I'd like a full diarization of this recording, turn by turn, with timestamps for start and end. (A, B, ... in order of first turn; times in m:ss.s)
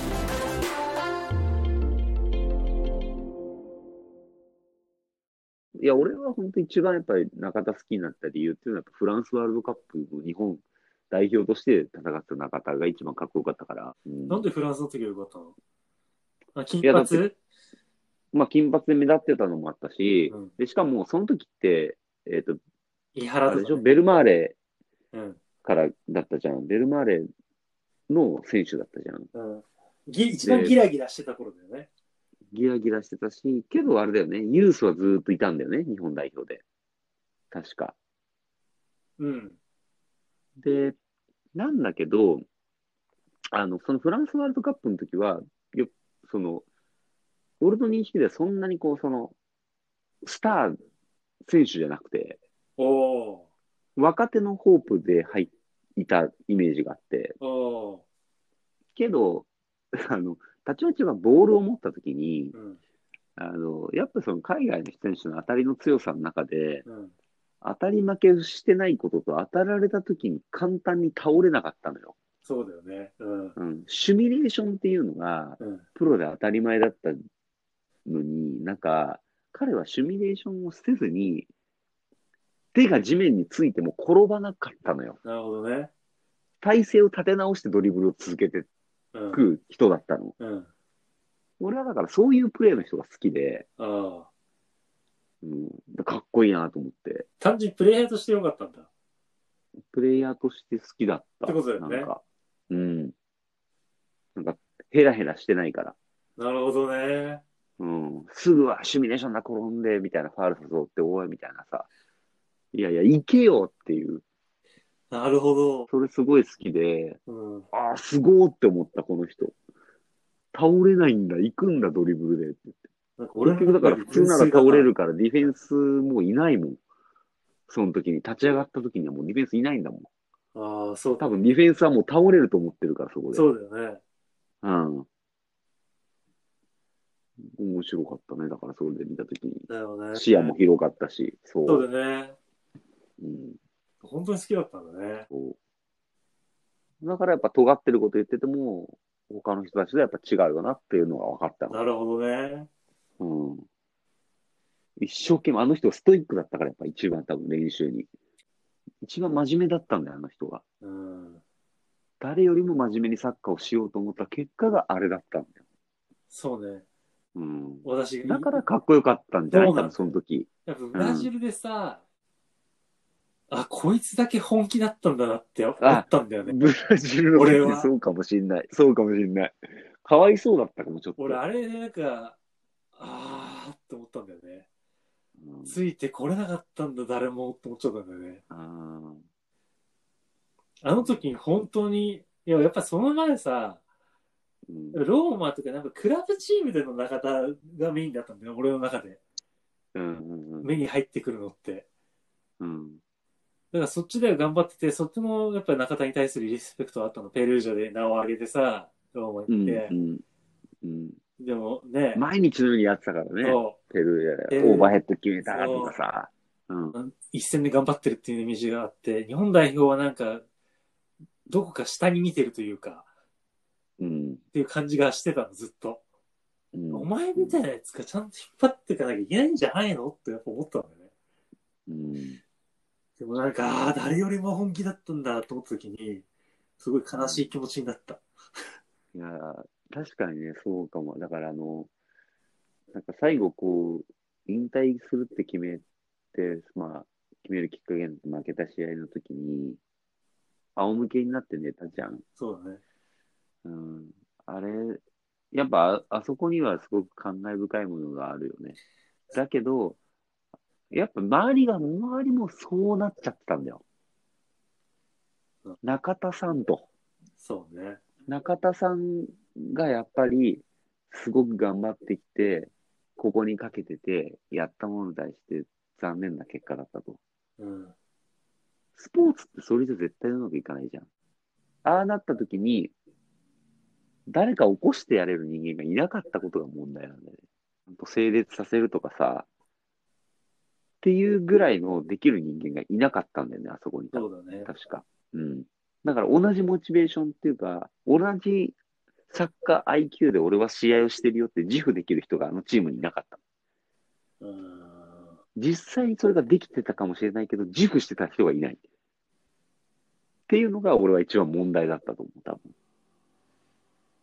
0:05.8-0:14.4 A
0:14.3-0:15.5 B
0:16.5-0:17.4 B
0:16.8-0:17.2 A
0:18.3-0:22.6 A
0:23.1-0:23.8 B
0:23.5-0:24.6 A
0:25.1-0:25.4 B
0:25.6-0:27.2 A
0:28.1-0:29.3 A
0:29.3-0:31.9 B
0:30.4-0:30.8 A
0:32.5-0:36.6 A
0:37.5-0:38.0 A
0:39.2-0:39.6 B
0:40.6-0:40.9 A
0:41.5-0:42.4 A
0:43.5-0:46.6 A
0:47.6-0:49.4 A
0:50.2-0:50.8 A
0:51.4-0:52.4 A
0:52.8-0:53.5 B
0:54.0-0:57.4 A
0:57.4-0:58.0 B
0:58.9-1:02.5 A
1:02.5-1:02.8 B
1:03.4-1:06.8 A
1:06.8-1:07.1 B
1:07.6-1:12.1 A
1:12.4-1:13.6 B
1:13.6-1:17.2 A
1:15.6-1:15.8 B
1:18.0-1:21.5 A
1:22.7-1:25.2 A
1:25.2-1:25.9 B
1:26.6-1:28.7 A
1:29.1-1:29.4 B
1:29.3-1:30.4 A
1:30.4-1:30.7 B
1:31.6-1:33.6 A
1:33.8-1:34.3 B
1:35.4-1:37.3 A
1:37.4-1:38.9 B
1:39.9-1:43.1 A
1:41.4-1:42.1 B
1:44.4-1:46.0 A
1:46.4-1:47.4 B
1:47.8-1:51.9 A
1:52.7-1:54.2 A
1:55.1-1:55.9 B
1:55.9-1:57.2 A
1:57.3-1:57.7 B
1:57.7-1:59.5 A
2:00.5-2:02.8 A
2:03.2-2:05.5 B
2:03.4-2:06.8 A
2:07.7-2:10.1 A
2:10.5-2:11.3 B
2:11.2-2:13.5 A
2:13.3-2:14.0 B
2:14.6-2:15.1 A
2:17.5-2:21.8 A
2:19.7-2:20.6 B
2:21.6-2:22.4 B
2:23.2-2:23.6 A
2:24.0-2:25.3 B
2:25.3-2:25.6 A
2:27.0-2:31.8 A
2:31.7-2:32.7 B
2:33.2-2:33.6 A
2:35.0-2:38.1 A
2:39.0-2:40.6 A
2:40.8-2:41.4 B
2:42.2-2:45.6 A
2:46.3-2:46.8 B
2:47.4-2:51.3 A
2:47.8-2:48.6 B
2:49.5-2:50.0 B
2:50.6-2:52.0 B
2:53.5-2:56.7 B
2:55.8-3:01.4 A
2:57.3-2:57.9 B
3:01.2-3:02.4 B
3:02.9-3:04.6 B
3:05.4-3:05.8 A
3:05.6-3:08.4 B
3:08.5-3:09.2 A
3:10.8-3:13.8 B
3:14.7-3:15.0 A
3:14.9-3:19.2 B
3:19.9-3:20.8 A
3:20.6-3:21.8 B
3:22.6-3:23.0 A
3:23.7-3:29.9 B
3:29.5-3:30.2 A
3:30.8-3:31.2 A
3:31.4-3:32.2 B
3:32.1-3:37.0 A
3:33.4-3:33.8 B
3:34.5-3:35.9 B
3:36.9-3:40.4 B
3:41.5-3:43.0 B
3:44.0-3:44.4 A
3:44.5-3:46.0 B
3:46.7-3:47.6 A
3:46.9-3:51.1 B
3:51.9-3:52.4 A
3:53.2-3:56.2 B
3:56.8-3:58.2 B
3:57.1-3:57.5 A
3:59.1-4:01.9 A
4:02.9-4:09.8 A
4:10.8-4:12.2 A
4:12.4-4:12.8 B
4:13.6-4:15.0 A
4:15.5-4:18.8 A
4:19.3-4:20.0 A
4:20.9-4:23.8 A
4:25.8-4:26.9 A
4:27.4-4:28.0 B
4:28.3-4:37.2 A
4:37.6-4:37.9 B
4:39.0-4:41.0 A
4:41.8-4:42.9 A
4:44.3-4:49.5 A
4:51.0-4:58.8 A
4:54.1-4:54.7 B
4:59.3-5:03.4 A
5:04.4-5:05.4 B
5:05.6-5:08.8 A
5:10.5-5:12.7 A